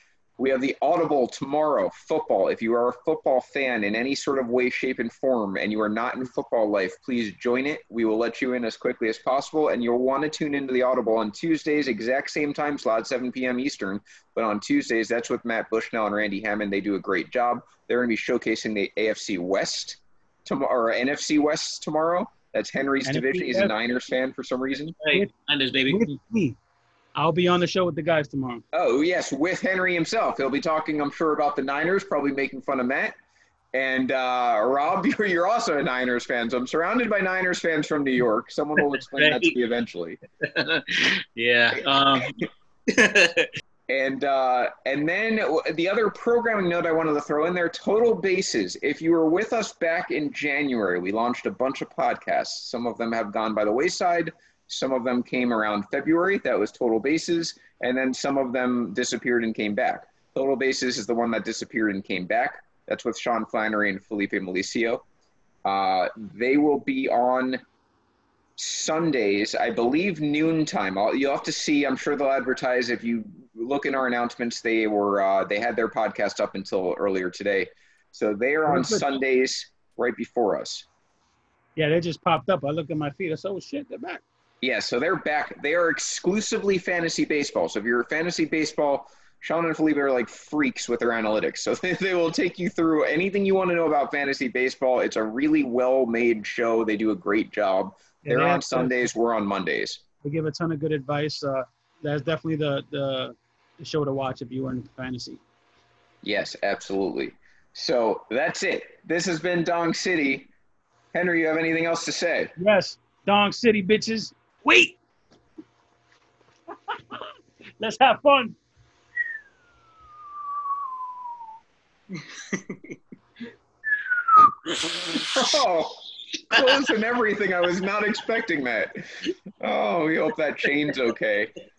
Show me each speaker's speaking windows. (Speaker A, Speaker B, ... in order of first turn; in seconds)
Speaker A: 0.4-25.0, 28.7-33.1, 33.7-40.2, 43.9-65.0, 65.7-67.6, 68.6-80.9, 84.6-100.0, 106.2-110.5, 111.1-112.5, 125.1-131.5
Speaker B: 23.1-23.7, 25.8-26.6, 27.2-28.6, 78.7-79.1, 81.8-84.2, 98.2-99.1, 100.2-105.4, 112.6-115.0, 117.8-118.6
Speaker C: 25.0-26.1, 38.8-39.5, 40.4-43.5, 122.5-122.9